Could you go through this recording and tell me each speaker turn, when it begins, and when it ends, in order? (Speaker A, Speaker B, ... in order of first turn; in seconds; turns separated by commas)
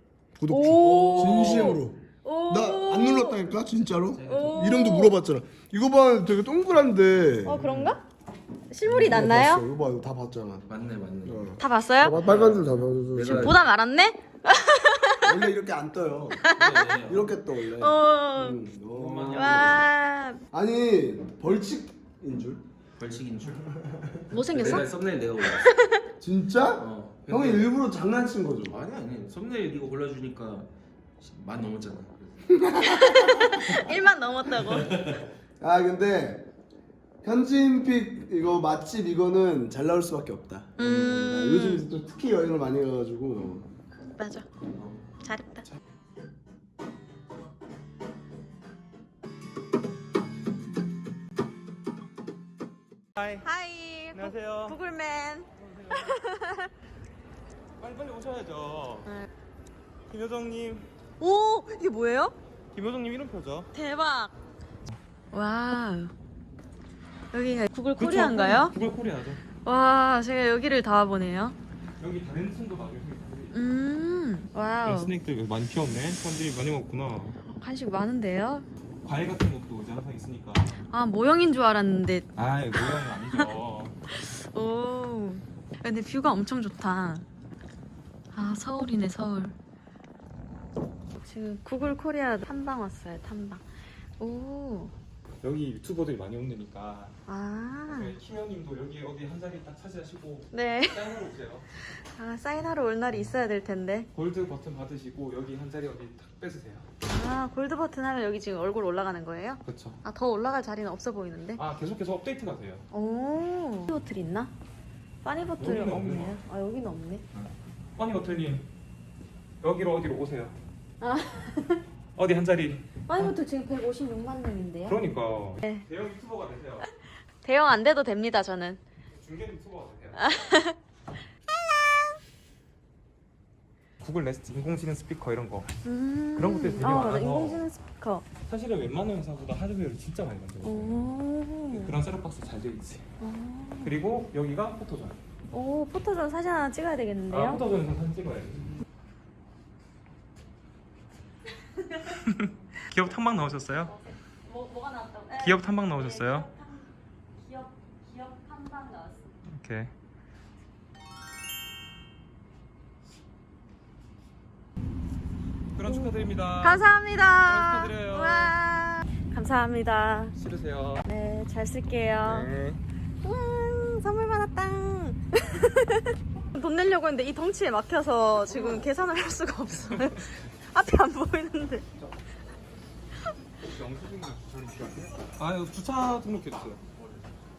Speaker A: 0.4-7.7, Speaker B: 0.5-3.4, Speaker C: 0.9-1.8, Speaker C: 4.1-4.8, Speaker B: 4.2-5.2, Speaker B: 7.5-8.0, Speaker B: 8.7-9.7, Speaker A: 8.8-10.7, Speaker C: 10.7-11.6, Speaker A: 11.2-13.6, Speaker B: 11.6-12.3, Speaker C: 12.2-13.6, Speaker B: 13.3-15.5, Speaker A: 15.2-16.5, Speaker B: 16.4-16.9, Speaker C: 16.5-17.3, Speaker A: 17.0-19.9, Speaker B: 17.8-18.6, Speaker C: 18.9-19.9, Speaker B: 19.3-20.4, Speaker A: 20.5-22.6, Speaker C: 23.0-23.7, Speaker B: 24.3-24.9, Speaker C: 24.5-25.7, Speaker B: 25.4-26.0, Speaker A: 26.2-28.8, Speaker C: 26.8-27.7, Speaker C: 28.7-30.7, Speaker C: 31.2-32.6, Speaker A: 32.5-33.6, Speaker B: 32.8-35.1, Speaker C: 34.6-35.2, Speaker A: 35.6-36.5, Speaker A: 37.2-43.7, Speaker B: 40.8-41.9, Speaker B: 44.1-44.5, Speaker B: 45.2-45.7, Speaker D: 53.2-53.5, Speaker B: 53.4-56.7, Speaker D: 54.1-54.8, Speaker D: 55.6-56.1, Speaker D: 57.8-59.1, Speaker D: 60.1-60.9, Speaker B: 61.2-62.4, Speaker D: 62.7-63.7, Speaker B: 63.7-64.3, Speaker B: 65.3-66.1, Speaker B: 67.3-68.7, Speaker D: 68.0-69.4, Speaker B: 69.6-71.6, Speaker D: 72.0-73.6, Speaker B: 73.5-75.1, Speaker D: 74.8-77.4, Speaker B: 77.5-78.7, Speaker D: 79.0-80.8, Speaker B: 80.8-83.5, Speaker D: 82.3-84.0, Speaker B: 84.1-87.3, Speaker B: 88.3-89.5, Speaker B: 91.1-93.7, Speaker B: 94.2-94.9, Speaker D: 95.4-97.2, Speaker B: 97.3-98.2, Speaker D: 97.9-101.7, Speaker B: 100.5-101.1, Speaker B: 101.9-104.1, Speaker D: 104.1-106.9, Speaker B: 107.1-111.6, Speaker D: 109.6-110.0, Speaker D: 111.6-112.8, Speaker B: 112.9-114.5, Speaker B: 115.2-117.2, Speaker D: 115.6-116.4, Speaker D: 118.0-118.7, Speaker D: 119.6-120.6, Speaker B: 121.0-121.8, Speaker D: 122.2-123.3, Speaker B: 123.1-125.0, Speaker D: 124.9-126.9, Speaker B: 127.4-128.8, Speaker D: 129.1-130.2, Speaker B: 130.2-130.8, Speaker B: 131.7-132.0, Speaker D: 134.0-135.7, Speaker B: 135.8-138.3, Speaker D: 136.4-137.7, Speaker D: 138.5-141.1, Speaker B: 140.6-142.0, Speaker D: 141.7-143.1, Speaker B: 143.2-144.0, Speaker D: 143.8-145.2, Speaker B: 145.5-147.6, Speaker D: 147.3-148.8, Speaker B: 151.8-152.2, Speaker D: 152.3-153.9, Speaker B: 153.8-159.3, Speaker D: 155.4-156.5, Speaker D: 159.5-159.9, Speaker D: 165.8-166.9, Speaker B: 165.8-170.3, Speaker D: 167.4-168.6, Speaker D: 170.3-171.0, Speaker B: 171.1-172.5, Speaker D: 172.2-172.8, Speaker B: 173.2-181.9, Speaker D: 178.5-178.9, Speaker D: 183.6-186.8